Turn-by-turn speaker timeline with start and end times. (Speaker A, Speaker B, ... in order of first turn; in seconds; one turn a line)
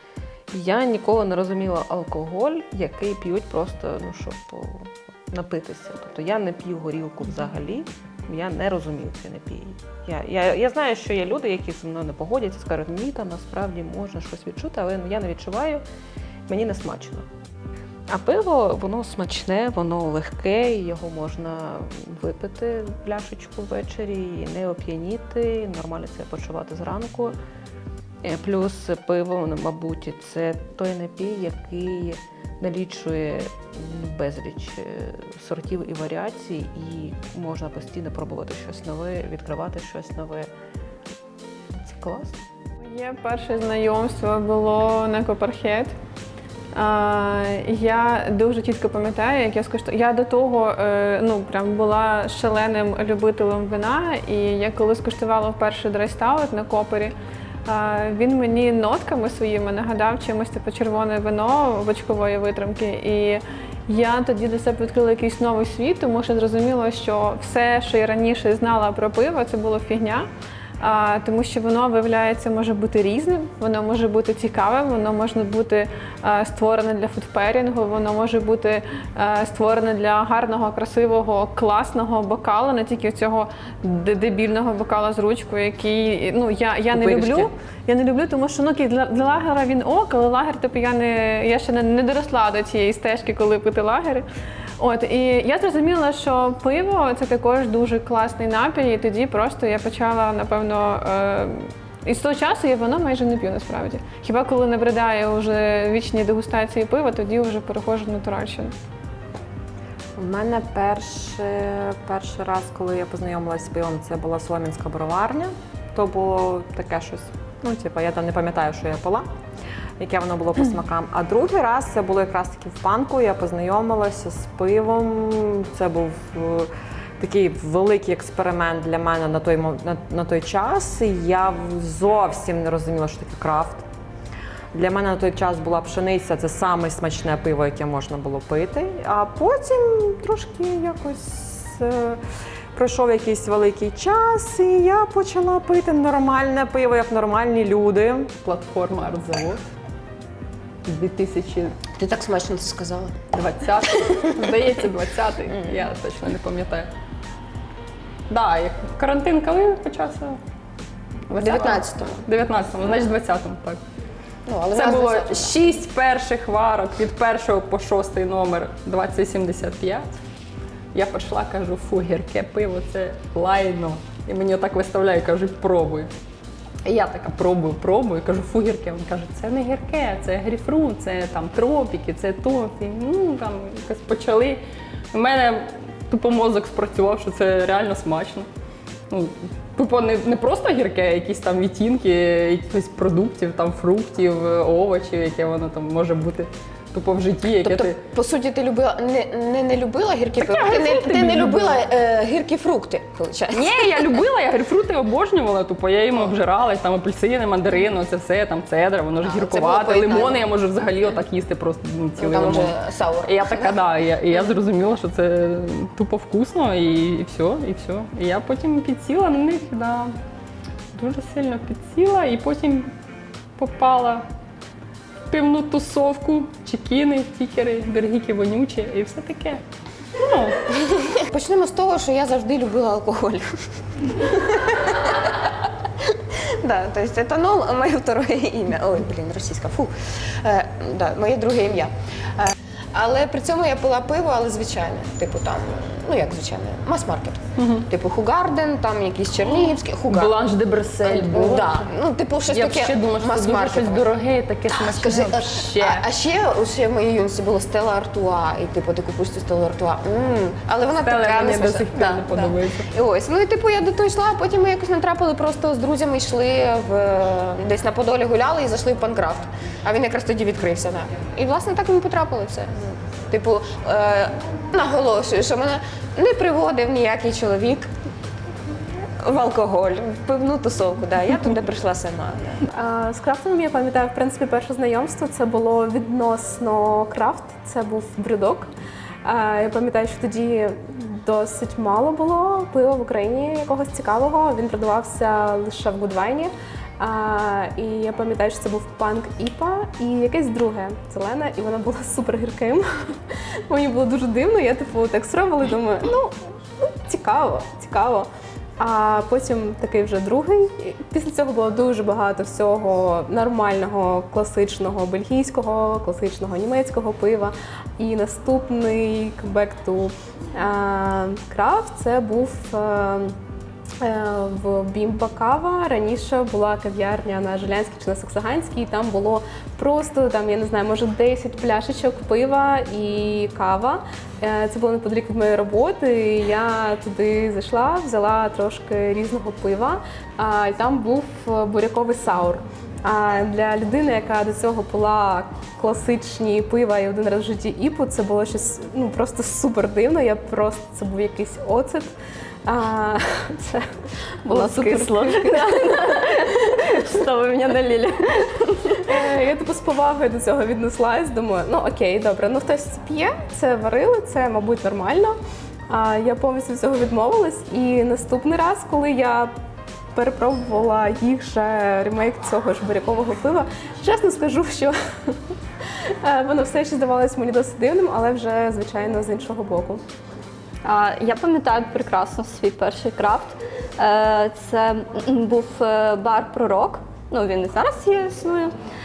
Speaker A: 0.5-15.8
Speaker A: 16.5-17.3
Speaker A: 18.1-27.4
Speaker A: 28.2-40.5
Speaker A: 41.7-42.4
Speaker B: 42.8-45.9
Speaker B: 46.7-57.1
Speaker B: 57.7-70.3
Speaker B: 70.8-94.3
Speaker C: 87.0-87.5
Speaker B: 94.8-108.7
Speaker C: 110.2-119.3
Speaker C: 120.0-133.9
Speaker C: 134.7-142.2
Speaker C: 142.7-148.3
Speaker D: 148.4-149.6
Speaker D: 150.9-151.8
Speaker E: 152.0-153.2
Speaker D: 153.3-156.9
Speaker D: 158.3-160.4
Speaker D: 161.3-163.8
Speaker E: 161.3-162.2
Speaker E: 164.5-165.6
Speaker D: 164.7-170.2
Speaker D: 170.9-176.1
Speaker D: 176.8-184.6
Speaker D: 185.1-188.5
Speaker D: 189.1-198.0
Speaker E: 197.6-204.2
Speaker D: 200.4-201.8
Speaker D: 203.5-220.2
Speaker E: 209.2-210.4
Speaker E: 212.2-213.8
Speaker D: 220.9-222.9
Speaker D: 223.6-224.3
Speaker D: 225.3-229.6
Speaker D: 230.2-230.6
Speaker E: 231.0-233.5
Speaker E: 234.1-235.5
Speaker E: 236.4-250.4
Speaker D: 247.6-247.9
Speaker D: 250.1-251.9
Speaker E: 251.0-254.1
Speaker D: 252.5-256.0
Speaker E: 254.7-277.9
Speaker D: 260.9-262.9
Speaker E: 279.2-282.6
Speaker F: 282.7-288.7
Speaker F: 289.2-323.4
Speaker F: 324.0-352.1
Speaker F: 352.7-353.9
Speaker F: 354.4-357.1
Speaker G: 354.5-359.2
Speaker F: 359.1-365.4
Speaker F: 365.9-369.5
Speaker F: 370.1-380.0
Speaker G: 380.8-388.7